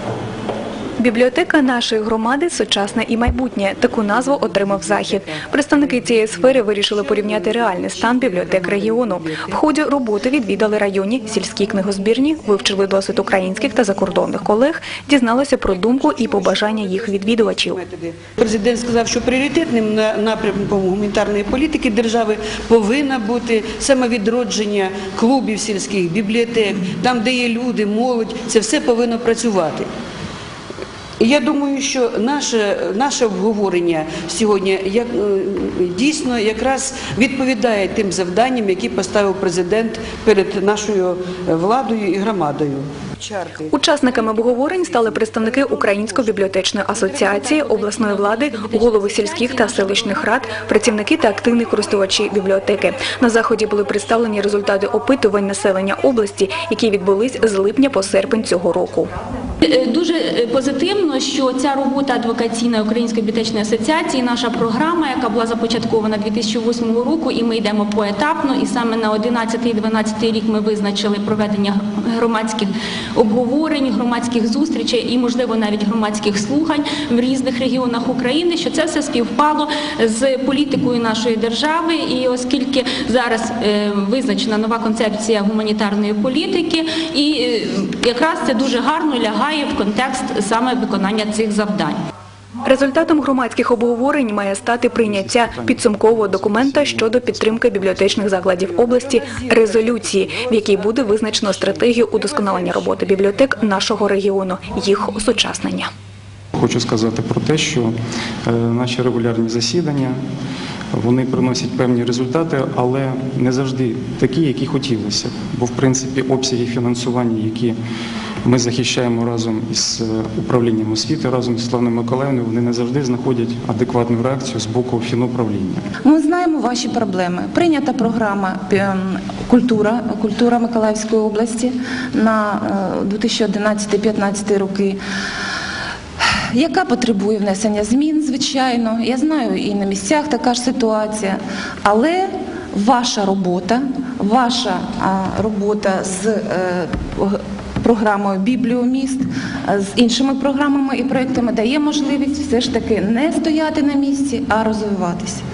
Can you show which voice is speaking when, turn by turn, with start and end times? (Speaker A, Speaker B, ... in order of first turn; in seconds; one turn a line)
Speaker A: 1.0-17.8
Speaker B: 4.4-9.6
Speaker B: 15.9-29.9
Speaker B: 31.2-46.5
Speaker A: 43.7-59.1
Speaker C: 47.0-50.5
Speaker C: 59.6-92.0
Speaker A: 92.6-105.9
Speaker D: 95.0-98.4
Speaker B: 98.6-103.5
Speaker D: 106.5-107.9
Speaker D: 108.5-110.2
Speaker D: 110.9-117.8
Speaker D: 118.4-125.8
Speaker E: 126.0-135.0
Speaker E: 136.5-155.4